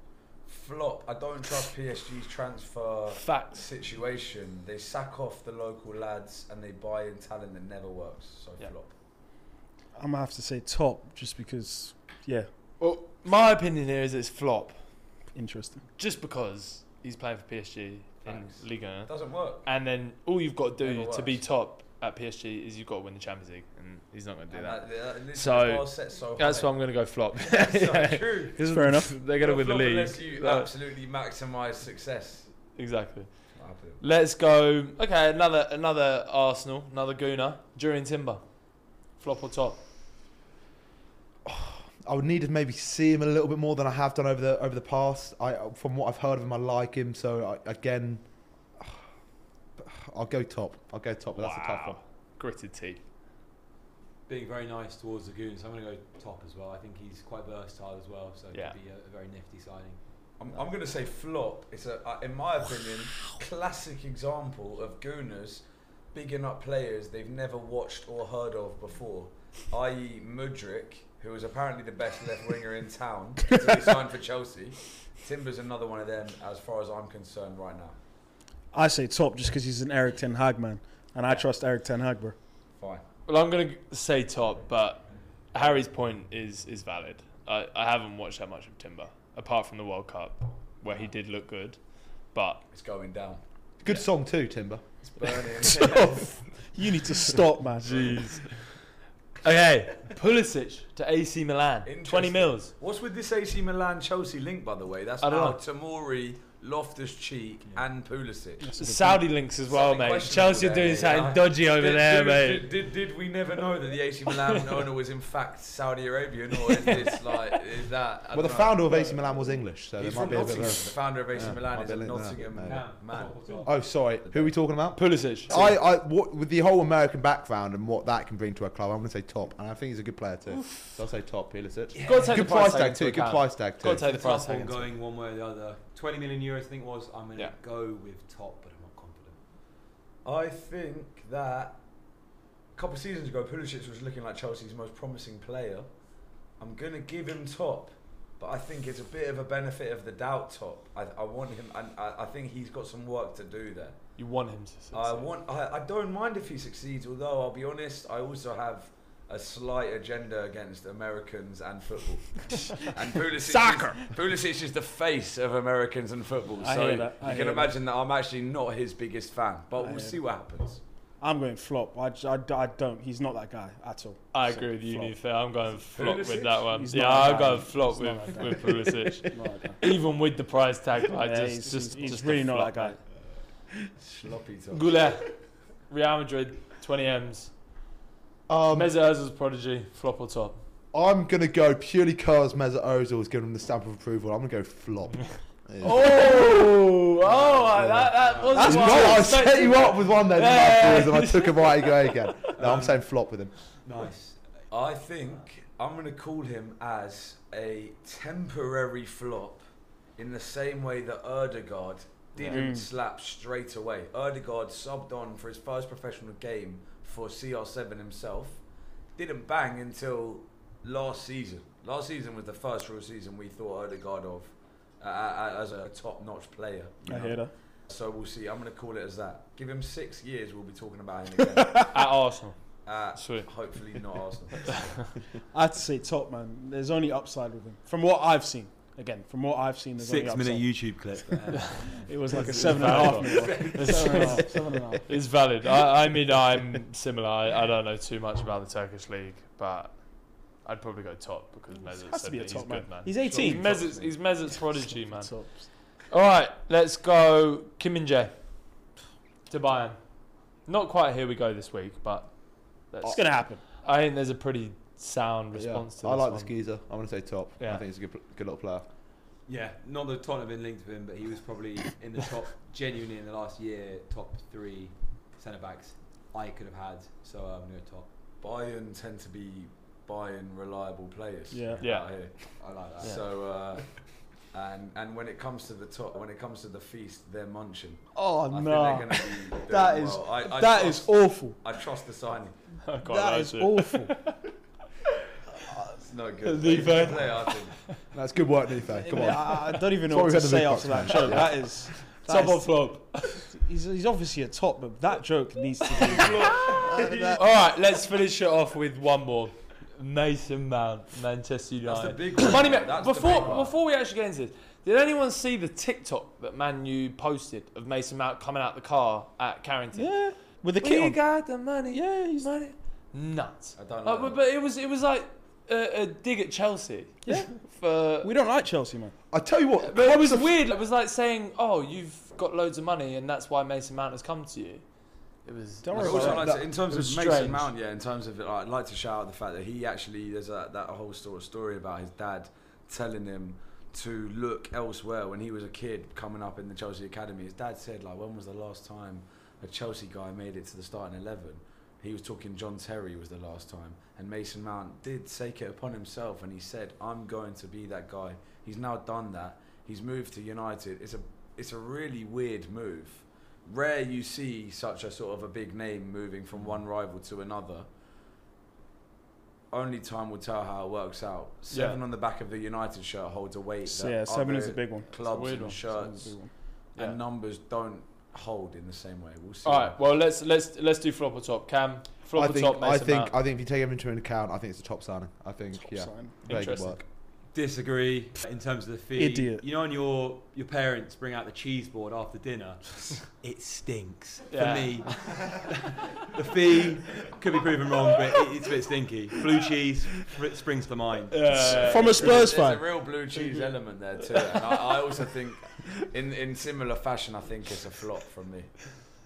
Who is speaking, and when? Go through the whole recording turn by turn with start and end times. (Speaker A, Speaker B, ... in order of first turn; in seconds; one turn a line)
Speaker A: 0.5-8.9
Speaker B: 3.1-3.6
Speaker C: 9.9-12.5
Speaker B: 12.8-15.3
Speaker C: 15.3-15.8
Speaker B: 16.0-30.7
Speaker A: 18.2-19.7
Speaker A: 20.8-21.4
Speaker A: 24.5-28.6
Speaker C: 28.6-29.2
Speaker A: 29.2-32.5
Speaker B: 32.7-39.8
Speaker A: 33.5-34.0
Speaker D: 41.4-49.0
Speaker D: 49.8-52.0
Speaker B: 51.3-53.0
Speaker E: 54.3-60.6
Speaker B: 58.5-58.8
Speaker A: 60.4-78.0
Speaker C: 78.7-82.4
Speaker A: 82.7-83.0
Speaker B: 83.2-92.6
Speaker A: 92.7-93.4
Speaker D: 93.8-95.3
Speaker A: 95.1-96.7
Speaker C: 95.7-98.4
Speaker A: 97.8-98.8
Speaker B: 98.3-98.5
Speaker B: 99.4-102.7
Speaker A: 101.8-108.7
Speaker B: 105.2-105.6
Speaker C: 108.6-109.4
Speaker B: 108.8-112.7
Speaker A: 109.6-119.0
Speaker B: 116.6-117.6
Speaker D: 118.3-123.0
Speaker A: 120.0-123.6
Speaker B: 120.3-120.8
Speaker E: 122.5-123.7
Speaker D: 123.6-134.0
Speaker B: 124.9-125.5
Speaker B: 130.5-130.9
Speaker E: 131.9-132.6
Speaker B: 132.1-134.9
Speaker E: 133.9-139.4
Speaker A: 140.2-141.8
Speaker A: 142.7-146.0
Speaker A: 146.5-154.2
Speaker B: 154.2-155.3
Speaker A: 154.9-170.8
Speaker C: 163.5-163.9
Speaker B: 163.6-163.9
Speaker C: 166.6-167.7
Speaker C: 169.8-175.3
Speaker B: 174.3-183.0
Speaker A: 175.9-176.8
Speaker C: 176.7-179.8
Speaker C: 181.2-183.0
Speaker A: 183.7-185.0
Speaker B: 184.7-187.6
Speaker D: 188.5-188.9
Speaker B: 188.7-190.6
Speaker D: 190.9-196.4
Speaker B: 195.8-202.5
Speaker D: 197.3-203.8
Speaker A: 198.2-198.8
Speaker C: 198.5-199.4
Speaker E: 202.6-203.0
Speaker E: 203.8-204.4
Speaker A: 204.7-209.6
Speaker A: 210.2-232.0
Speaker B: 212.4-212.7
Speaker C: 212.4-212.9
Speaker C: 227.1-227.5
Speaker C: 231.5-231.9
Speaker B: 231.9-233.8
Speaker A: 232.8-235.2
Speaker C: 235.5-245.3
Speaker E: 240.0-244.6
Speaker B: 241.6-258.6
Speaker A: 242.8-244.4
Speaker C: 251.7-255.7
Speaker B: 259.5-266.6
Speaker C: 263.0-263.6
Speaker D: 265.5-268.8
Speaker B: 267.6-267.8
Speaker E: 269.4-278.1
Speaker A: 278.4-292.8
Speaker C: 281.5-281.8
Speaker B: 281.8-283.2
Speaker E: 282.6-283.5
Speaker C: 288.1-291.6
Speaker B: 292.8-294.4
Speaker C: 293.0-294.3
Speaker A: 296.0-297.8
Speaker B: 296.4-297.7
Speaker D: 298.1-301.8
Speaker B: 299.1-299.7
Speaker C: 299.1-307.4
Speaker B: 301.1-303.5
Speaker B: 306.0-328.3
Speaker D: 306.8-307.4
Speaker A: 311.8-313.7
Speaker C: 319.9-322.6
Speaker A: 323.7-324.4
Speaker C: 327.2-329.1
Speaker D: 329.3-330.7
Speaker B: 329.8-337.7
Speaker C: 335.8-336.6
Speaker A: 335.9-367.9
Speaker A: 369.7-380.0
Speaker B: 371.7-372.0
Speaker C: 373.9-376.5
Speaker B: 375.2-375.8
Speaker B: 379.6-383.3
Speaker D: 382.3-387.0
Speaker C: 385.7-386.7
Speaker B: 386.4-387.0
Speaker E: 387.5-395.7
Speaker C: 389.1-389.6
Speaker B: 394.5-395.7
Speaker E: 396.2-401.9
Speaker B: 401.3-402.4
Speaker C: 401.5-403.0
Speaker A: 401.6-408.9